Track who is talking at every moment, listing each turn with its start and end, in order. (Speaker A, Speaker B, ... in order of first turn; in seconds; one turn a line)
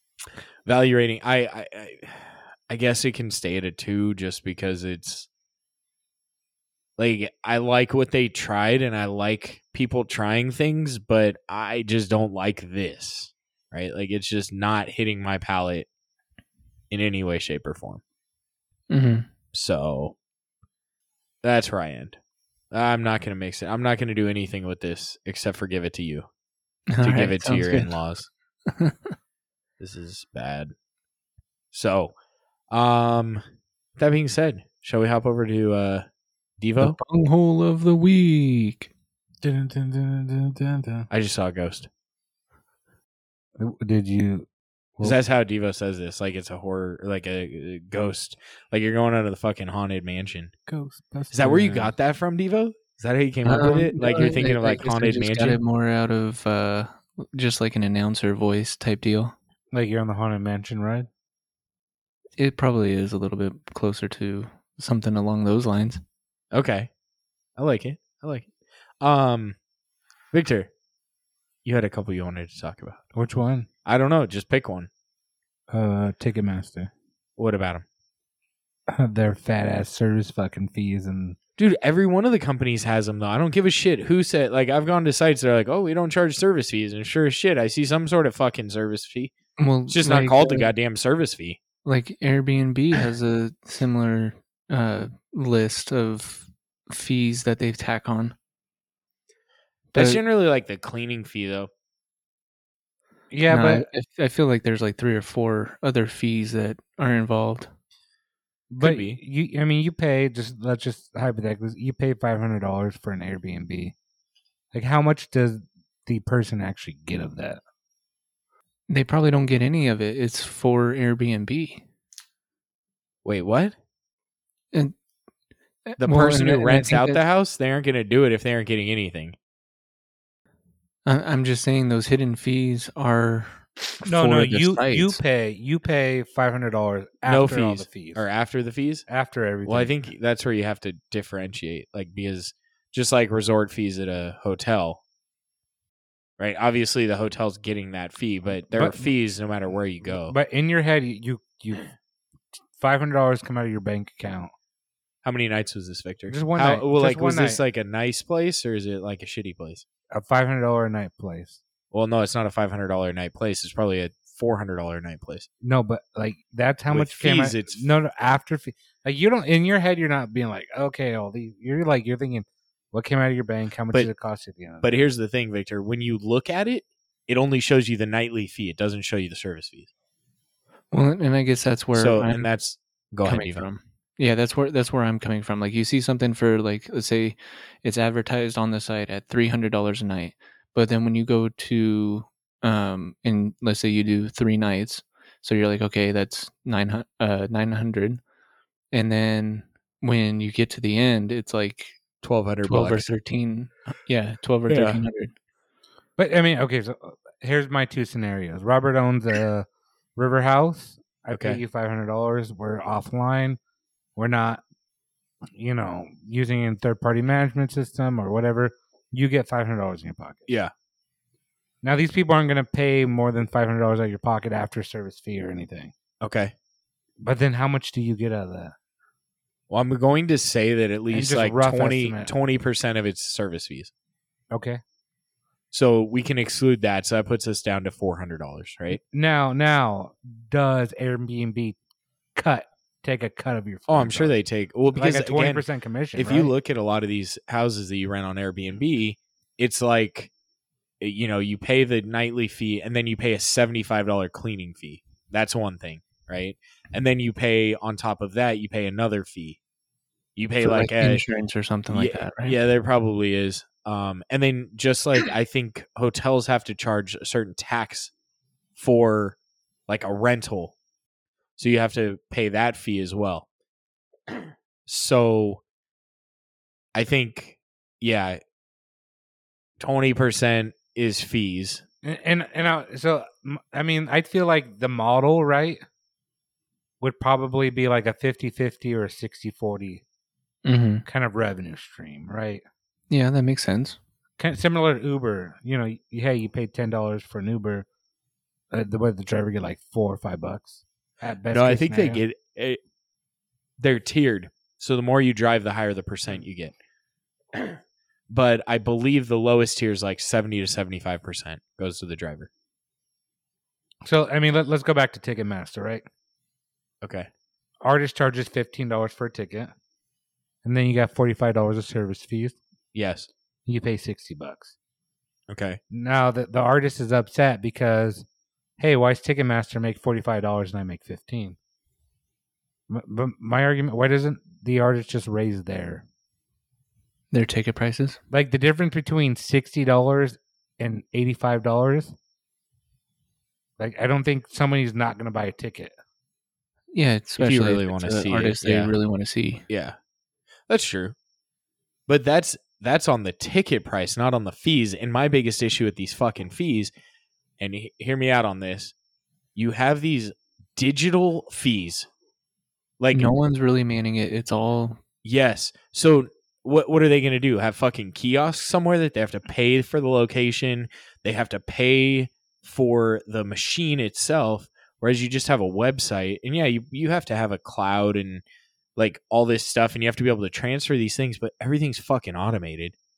Speaker A: 0.7-5.3
Speaker A: 7.0-15.9
Speaker A: 16.9-18.0
Speaker B: 18.9-19.3
Speaker A: 19.5-20.1
Speaker A: 21.4-22.2
Speaker A: 22.7-26.3
Speaker B: 26.9-27.9
Speaker A: 27.0-28.3
Speaker B: 28.7-29.1
Speaker A: 29.8-30.7
Speaker A: 31.7-32.1
Speaker A: 32.7-33.4
Speaker A: 34.0-36.1
Speaker A: 36.6-37.0
Speaker B: 36.8-38.9
Speaker C: 39.4-41.1
Speaker A: 41.1-41.9
Speaker C: 43.6-45.2
Speaker A: 45.0-50.5
Speaker C: 50.7-51.9
Speaker A: 51.3-55.6
Speaker B: 53.5-59.4
Speaker C: 59.7-61.1
Speaker B: 62.4-66.0
Speaker A: 66.5-66.9
Speaker A: 67.6-68.5
Speaker A: 69.0-69.6
Speaker A: 70.3-70.7
Speaker A: 71.7-73.0
Speaker C: 73.2-73.7
Speaker A: 73.8-74.9
Speaker C: 75.7-76.9
Speaker A: 77.4-77.8
Speaker C: 78.9-81.4
Speaker A: 81.6-89.3
Speaker B: 89.6-90.7
Speaker A: 89.9-91.6
Speaker B: 91.8-98.3
Speaker B: 99.9-100.2
Speaker A: 100.0-101.7
Speaker C: 103.3-103.9
Speaker B: 103.5-107.7
Speaker C: 108.7-114.0
Speaker A: 108.8-109.2
Speaker C: 114.7-117.6
Speaker B: 118.9-121.8
Speaker A: 123.2-123.8
Speaker B: 125.9-127.2
Speaker A: 126.0-129.4
Speaker B: 131.1-135.2
Speaker C: 134.1-138.3
Speaker A: 137.2-139.1
Speaker C: 139.1-139.9
Speaker A: 139.7-145.0
Speaker A: 146.4-150.3
Speaker C: 148.7-149.1
Speaker C: 150.1-151.9
Speaker C: 152.8-154.5
Speaker A: 155.2-159.8
Speaker C: 156.3-157.6
Speaker C: 160.1-161.6
Speaker A: 161.9-165.5
Speaker C: 165.6-175.1
Speaker A: 166.9-167.9
Speaker A: 174.8-179.9
Speaker B: 180.9-182.5
Speaker A: 181.9-183.7
Speaker B: 183.2-198.2
Speaker B: 198.9-202.0
Speaker A: 202.2-203.1
Speaker B: 202.6-205.3
Speaker A: 204.7-205.0
Speaker C: 206.2-213.6
Speaker A: 211.3-211.6
Speaker C: 214.2-214.6
Speaker C: 215.5-220.4
Speaker C: 221.8-225.9
Speaker A: 226.2-226.5
Speaker C: 227.2-228.8
Speaker A: 229.7-233.9
Speaker C: 231.1-232.3
Speaker C: 234.5-234.8
Speaker A: 235.7-239.0
Speaker C: 238.9-241.8
Speaker C: 242.3-244.4
Speaker A: 243.9-245.6
Speaker C: 244.9-246.5
Speaker A: 246.2-250.3
Speaker A: 251.0-259.6
Speaker A: 260.4-261.2
Speaker B: 260.6-262.6
Speaker A: 261.9-268.1
Speaker A: 268.8-269.4
Speaker A: 269.9-270.7
Speaker A: 271.6-273.4
Speaker A: 274.9-275.6
Speaker A: 276.9-278.4
Speaker A: 279.8-281.8
Speaker C: 282.0-285.8
Speaker C: 287.0-290.0
Speaker B: 290.6-291.0
Speaker C: 291.1-292.6
Speaker B: 293.1-294.0
Speaker C: 294.4-297.9
Speaker C: 298.7-302.2
Speaker A: 301.5-302.8
Speaker A: 303.8-306.7
Speaker A: 308.3-312.5
Speaker C: 314.0-316.1
Speaker A: 317.0-317.3
Speaker C: 317.8-319.7
Speaker C: 320.6-322.6
Speaker A: 322.9-323.3
Speaker C: 323.7-324.7
Speaker A: 325.5-325.8
Speaker C: 325.9-328.3
Speaker C: 328.8-331.6
Speaker C: 332.9-336.1
Speaker B: 337.3-338.2
Speaker C: 338.3-342.2
Speaker C: 343.8-345.9
Speaker B: 346.9-349.6
Speaker A: 347.4-348.9
Speaker A: 349.7-350.0
Speaker A: 350.7-351.1
Speaker A: 352.1-356.9
Speaker A: 357.6-358.9
Speaker A: 359.6-362.1
Speaker A: 363.0-363.4
Speaker B: 363.1-365.0
Speaker A: 365.2-378.4
Speaker A: 379.0-382.9